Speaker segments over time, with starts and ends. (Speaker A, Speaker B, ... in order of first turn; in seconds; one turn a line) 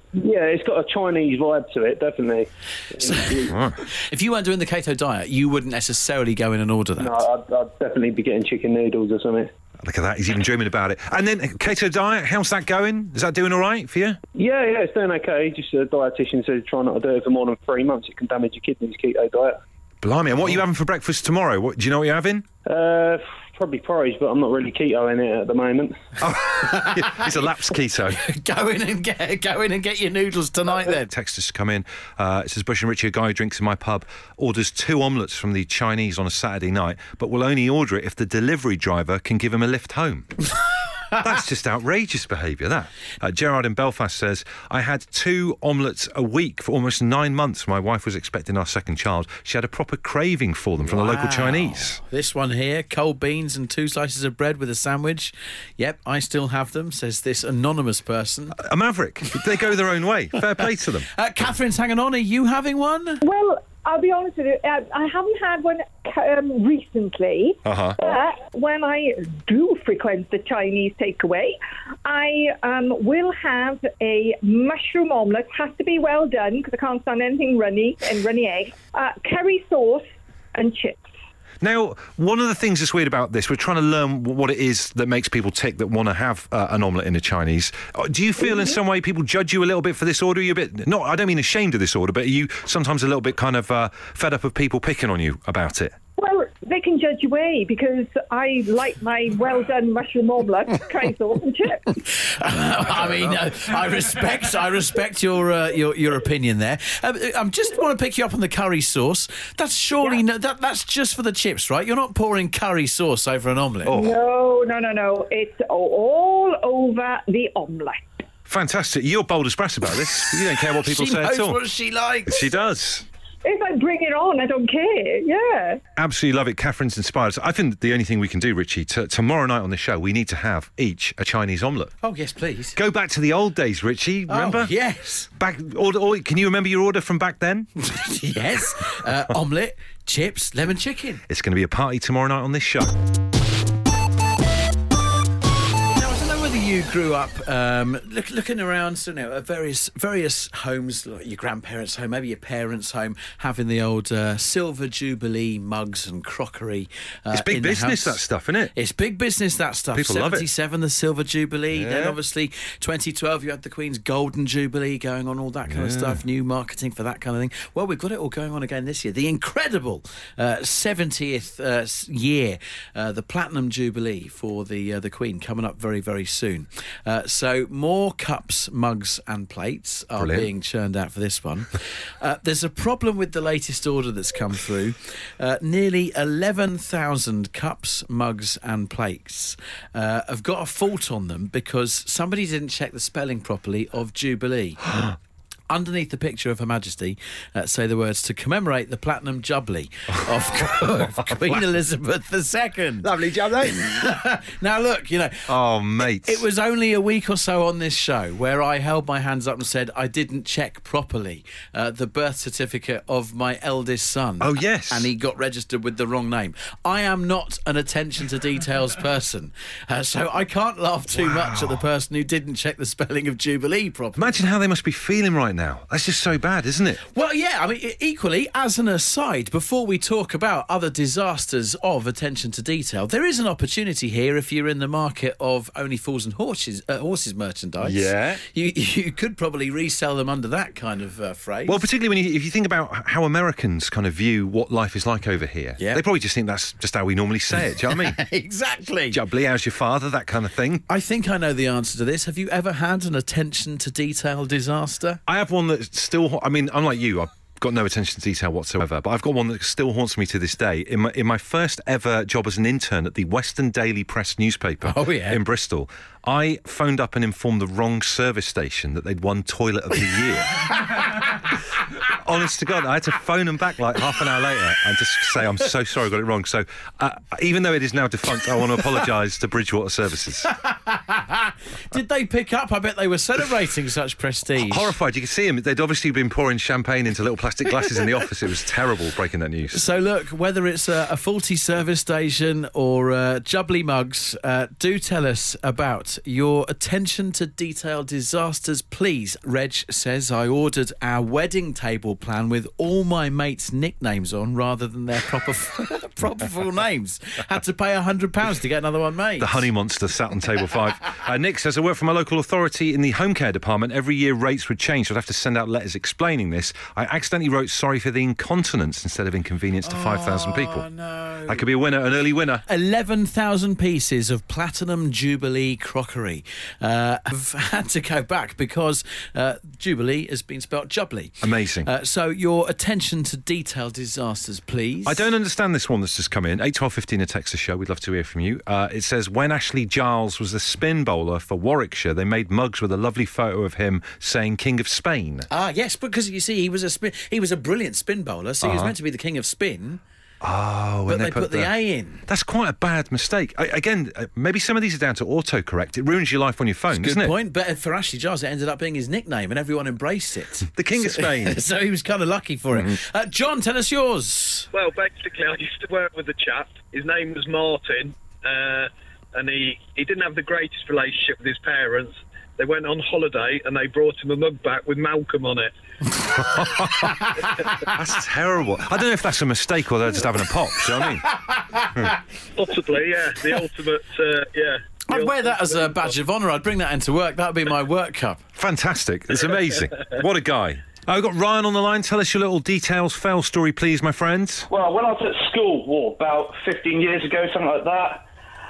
Speaker A: 0.1-3.5
Speaker B: 3.3-7.2
Speaker C: 3.5-3.8
Speaker A: 7.0-9.5
Speaker C: 9.8-14.2
Speaker A: 14.3-19.6
Speaker C: 20.0-22.4
Speaker A: 22.6-25.9
Speaker C: 26.2-28.2
Speaker B: 26.6-27.5
Speaker B: 28.1-31.1
Speaker C: 30.9-40.4
Speaker C: 41.2-52.0
Speaker B: 50.8-58.6
Speaker C: 58.6-61.1
Speaker B: 61.1-63.2
Speaker D: 63.2-81.0
Speaker C: 67.6-68.0
Speaker C: 81.6-95.9
Speaker D: 96.2-101.9
Speaker B: 102.0-113.9
Speaker C: 113.8-114.2
Speaker D: 113.9-118.0
Speaker C: 118.5-121.6
Speaker B: 120.8-122.5
Speaker C: 122.3-123.0
Speaker D: 123.4-125.8
Speaker C: 126.0-131.9
Speaker B: 132.0-132.8
Speaker C: 132.7-134.7
Speaker B: 134.3-135.3
Speaker C: 135.3-137.7
Speaker B: 137.8-141.2
Speaker C: 141.3-142.9
Speaker B: 145.9-158.2
Speaker C: 157.3-158.7
Speaker B: 158.7-195.1
Speaker C: 159.9-160.5
Speaker C: 161.7-162.2
Speaker C: 165.7-166.2
Speaker C: 180.2-180.5
Speaker B: 195.7-224.4
Speaker C: 205.5-206.4
Speaker C: 214.4-215.1
Speaker C: 221.1-221.8
Speaker C: 224.2-227.0
Speaker B: 227.1-241.8
Speaker C: 237.8-238.4
Speaker C: 241.7-248.2
Speaker B: 247.8-249.2
Speaker C: 249.1-250.8
Speaker B: 250.9-255.2
Speaker C: 255.3-270.8
Speaker B: 264.8-265.4
Speaker C: 272.1-280.5
Speaker B: 280.6-284.9
Speaker C: 284.6-289.8
Speaker B: 289.7-309.7
Speaker C: 309.4-320.8
Speaker B: 319.8-321.6
Speaker C: 321.5-322.6
Speaker B: 322.7-335.3
Speaker C: 331.4-331.9
Speaker C: 335.1-345.5
Speaker B: 345.5-350.0
Speaker C: 348.6-348.9
Speaker C: 350.4-357.3
Speaker B: 351.1-352.2
Speaker B: 356.9-364.7
Speaker C: 360.7-361.6
Speaker E: 364.7-375.7
Speaker C: 376.5-377.1
Speaker C: 377.9-381.3
Speaker B: 381.5-381.8
Speaker E: 382.6-385.5
Speaker B: 385.1-388.4
Speaker C: 388.6-394.7
Speaker F: 394.7-398.2